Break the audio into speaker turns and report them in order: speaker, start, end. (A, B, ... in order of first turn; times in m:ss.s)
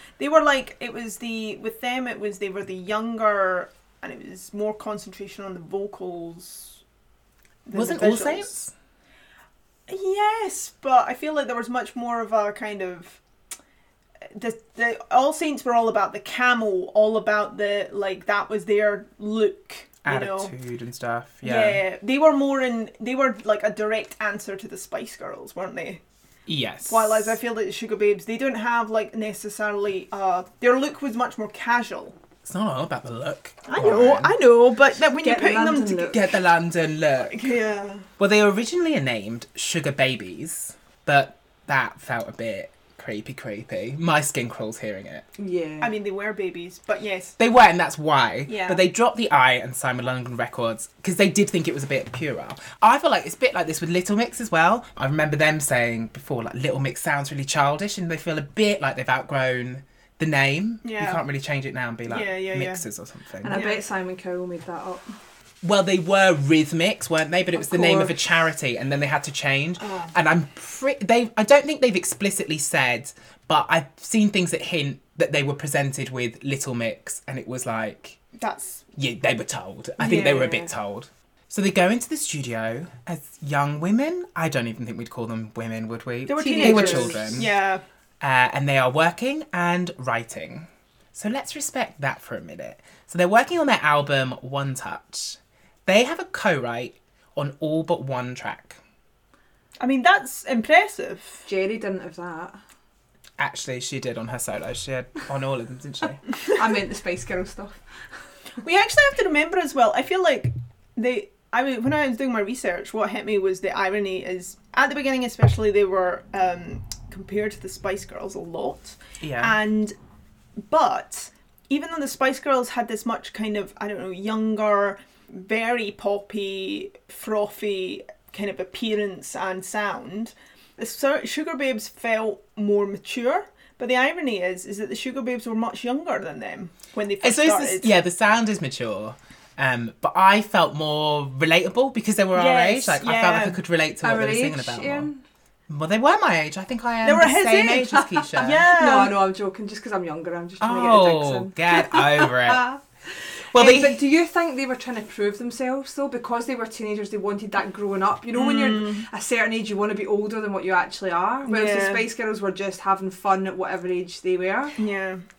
0:00.2-0:06.8 A
0:07.7-0:08.5 A
0:07.7-0:08.7 B
0:09.9-0:13.2 A
0:14.3-0:20.5 A
0:20.0-0:21.8 B
0:21.4-0:26.0 A
0:26.5-0:27.4 B
0:26.9-0:32.2 A
0:32.4-0:34.4 B
0:33.7-0:36.2 A
0:35.1-0:36.2 C
0:36.1-0:37.5 B
0:37.3-0:38.1 A
0:38.2-0:45.2 B
0:45.4-0:45.9 C
0:45.8-0:47.4 A
0:47.4-1:03.6 B
0:48.5-0:48.8 A
1:00.8-1:01.2 A
1:02.1-1:02.8 A
1:03.4-1:05.0 C
1:03.5-1:03.8 A
1:05.6-1:18.2 B
1:07.5-1:08.2 C
1:09.8-1:10.1 A
1:18.4-1:18.8 A
1:19.0-1:27.5 B
1:20.0-1:20.7 C
1:26.3-1:27.8 A
1:26.5-1:27.4 C
1:28.2-1:38.8 B
1:39.8-1:41.4 A
1:41.5-1:42.6 C
1:43.4-1:46.2 B
1:46.4-1:47.8 C
1:48.6-1:59.9 A
1:59.2-1:59.6 B
2:00.6-2:17.9 A
2:17.2-2:25.1 B
2:22.3-2:23.6 A
2:24.0-2:25.2 C
2:25.7-2:28.6 B
2:27.0-2:29.2 A
2:27.9-2:44.8 C
2:30.6-2:32.6 B
2:33.5-2:34.0 B
2:38.3-2:39.0 A
2:41.5-2:42.1 A
2:44.8-2:45.2 A